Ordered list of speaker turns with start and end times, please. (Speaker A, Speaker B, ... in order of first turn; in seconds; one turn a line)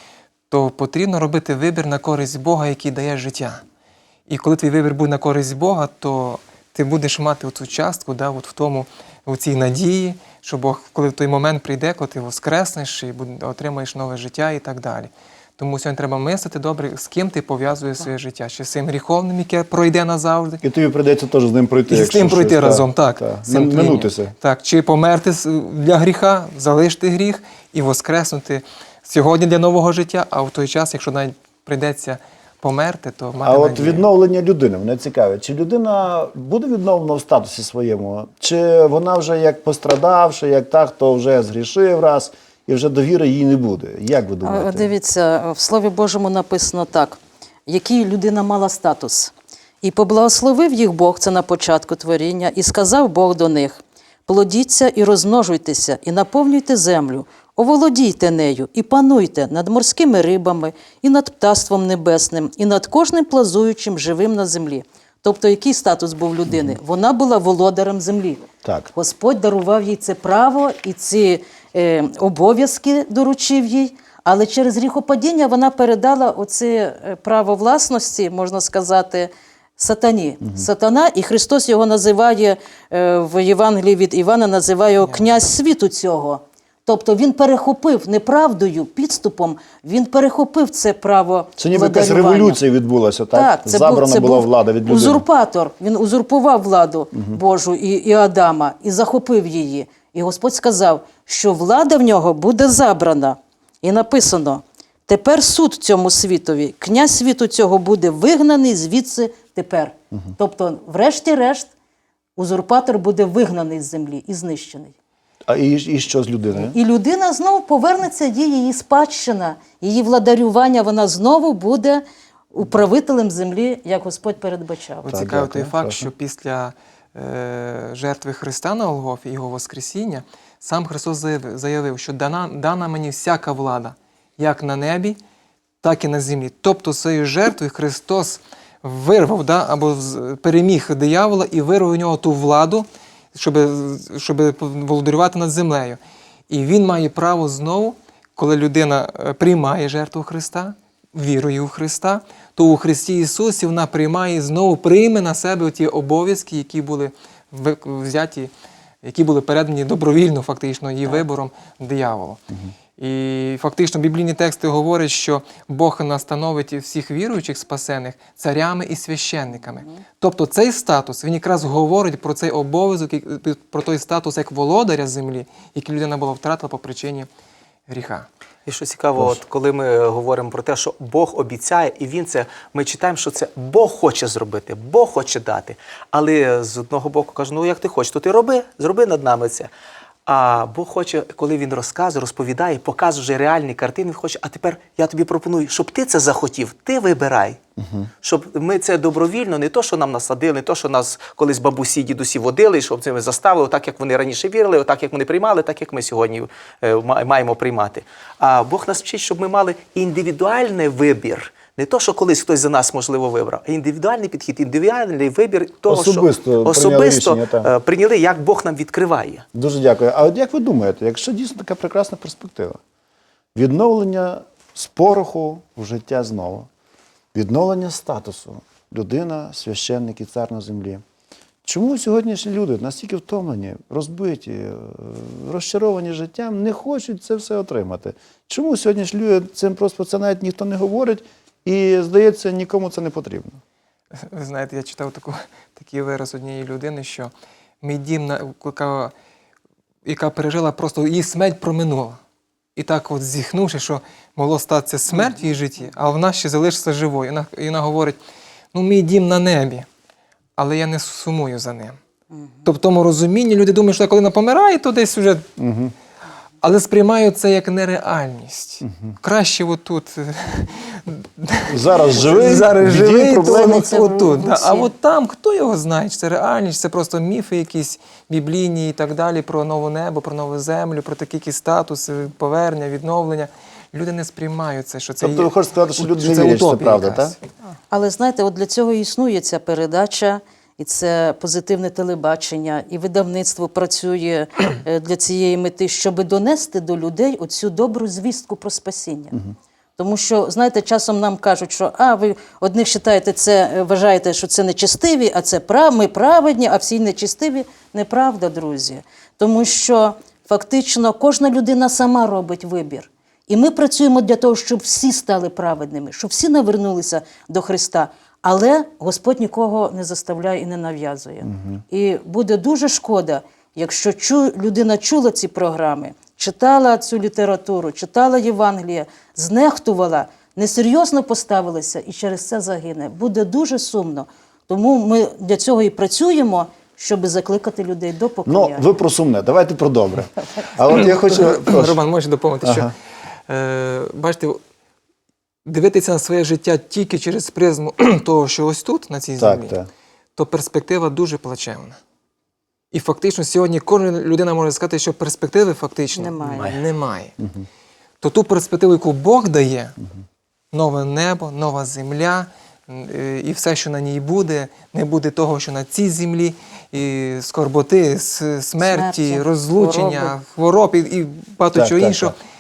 Speaker A: 0.5-3.6
Speaker A: 4.3-20.6
Speaker B: 20.6-24.3
Speaker A: 21.9-34.0
Speaker B: 33.4-44.9
Speaker C: 44.4-92.6
Speaker B: 66.5-66.7
Speaker B: 68.6-68.9
Speaker B: 80.4-80.7
Speaker B: 91.6-95.2
Speaker C: 93.3-111.7
Speaker B: 97.1-97.4
Speaker C: 112.4-114.9
Speaker B: 115.5-116.8
Speaker C: 116.5-125.2
Speaker B: 125.1-126.1
Speaker A: 125.1-135.2
Speaker A: 135.8-146.0
Speaker A: 146.5-158.5
Speaker A: 159.0-162.4
Speaker A: 163.0-177.3
Speaker A: 177.9-178.3
Speaker D: 178.7-189.7
Speaker D: 190.2-197.6
Speaker B: 197.8-198.1
Speaker D: 198.2-219.4
Speaker B: 215.9-217.7
Speaker B: 219.5-222.8
Speaker B: 223.5-226.7
Speaker B: 227.3-231.0
Speaker B: 231.6-243.6
Speaker A: 244.2-247.3
Speaker A: 247.8-249.1
Speaker A: 250.0-252.2
Speaker A: 252.8-258.2
Speaker A: 258.7-259.9
Speaker A: 260.6-262.0
Speaker A: 262.6-265.5
Speaker B: 265.6-265.9
Speaker A: 266.6-287.4
Speaker B: 268.8-269.1
Speaker B: 271.7-273.9
Speaker C: 273.6-274.9
Speaker B: 285.2-287.3
Speaker C: 287.9-299.4
Speaker C: 300.0-338.9
Speaker B: 321.5-321.8
Speaker B: 338.4-342.0
Speaker A: 340.9-342.9
Speaker B: 342.6-342.9
Speaker A: 343.5-344.6
Speaker A: 345.6-349.8
Speaker B: 349.4-349.9
Speaker A: 350.4-352.0
Speaker A: 352.9-357.3
Speaker C: 356.1-356.7
Speaker D: 356.4-356.8
Speaker B: 357.4-357.7
Speaker A: 358.2-359.9
Speaker A: 360.7-372.3
Speaker C: 368.8-370.3
Speaker B: 371.7-372.3